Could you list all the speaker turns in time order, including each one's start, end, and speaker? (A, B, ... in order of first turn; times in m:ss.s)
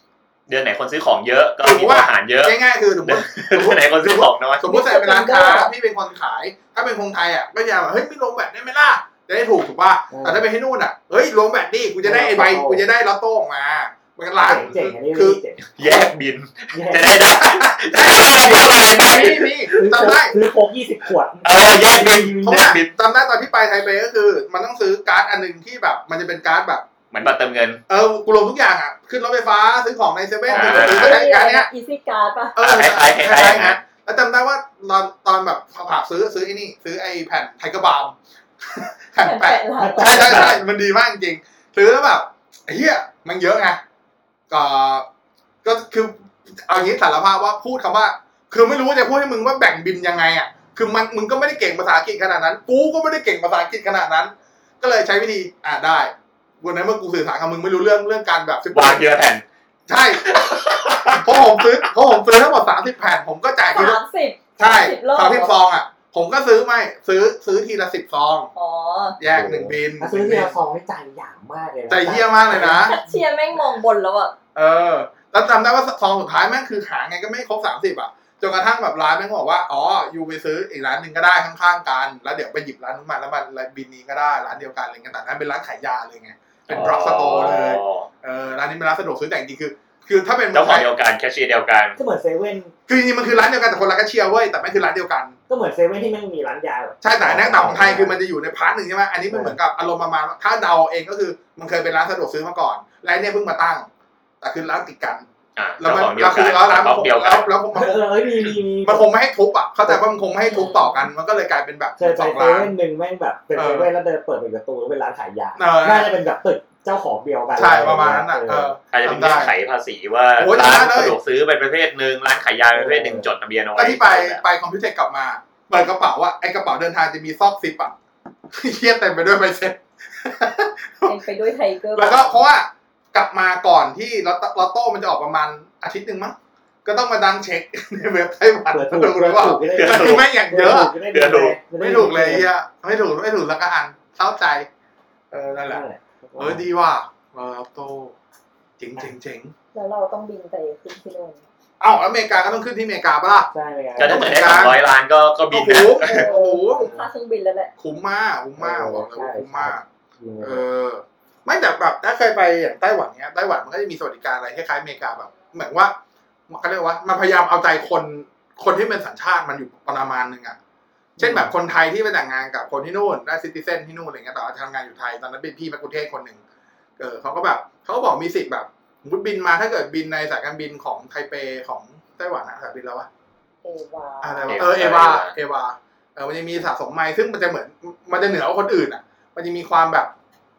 0:00.5-0:04.6 A
0:01.6-0:15.4 B
0:04.6-0:05.7 C
0:10.1-0:10.4 D
0:12.0-0:12.8 D
0:14.4-0:16.1 D
0:15.8-0:19.5 A
0:16.7-0:17.2 D
0:17.5-0:20.4 B
0:19.7-0:22.7 D
0:21.4-0:22.9 A
0:22.4-0:26.9 B
0:27.1-0:27.8 A
0:27.9-0:31.7 B
0:30.5-0:32.6 C
0:30.5-0:31.2 A
0:32.6-0:43.8 B
0:32.6-0:33.8 A
0:39.2-0:40.5 C
0:39.8-0:40.6 D
0:44.5-0:45.1 B
0:45.6-0:59.0 B
0:58.7-0:59.4 A
0:59.9-1:00.4 B
1:00.3-1:01.2 A
1:00.9-1:04.0 B
1:03.7-1:05.6 C
1:04.6-1:08.5 B
1:08.5-1:09.2 C
1:09.2-1:10.6 B
1:09.3-1:13.2 D
1:11.9-1:13.0 B
1:12.6-1:14.4 C
1:14.5-1:30.9 B
1:26.7-1:28.1 A
1:30.5-1:32.0 A
1:32.0-1:32.7 D
1:32.9-1:35.3 B
1:35.5-1:38.2 D
1:37.0-1:43.9 B
1:39.3-1:39.6 D
1:44.4-1:45.2 B
1:45.6-1:47.5 A
1:45.8-1:48.1 B
1:47.7-1:49.1 D
1:48.8-1:52.7 B
1:50.4-1:51.1 C
1:52.0-1:58.7 D
1:53.5-1:53.9 B
1:55.6-1:56.1 B
1:57.5-1:59.5 B
1:58.9-2:04.4 A
2:00.4-2:01.2 B
2:02.7-2:03.3 D
2:03.8-2:07.9 B
2:08.5-2:11.2 B
2:11.0-2:12.4 C
2:11.9-2:20.9 B
2:18.7-2:22.5 D
2:19.7-2:20.2 A
2:21.0-2:21.6 A
2:21.8-2:24.7 B
2:25.3-2:25.8 B
2:25.5-2:26.6 D
2:26.4-2:28.1 B
2:28.8-2:29.5 B
2:29.7-2:31.4 C
2:31.8-2:34.8 B
2:33.5-2:34.7 D
2:34.0-2:36.2 A
2:35.5-2:36.9 B
2:36.0-2:37.7 C
2:36.8-2:37.0 D
2:37.8-2:39.8 B
2:38.6-2:40.6 D
2:40.4-2:46.0 B
2:46.5-2:50.6 B
2:51.2-2:51.5 D
2:51.2-2:56.4 B
2:57.0-3:03.1 B
3:03.6-3:04.9 C
3:04.2-3:10.1 B
3:04.5-3:05.3 A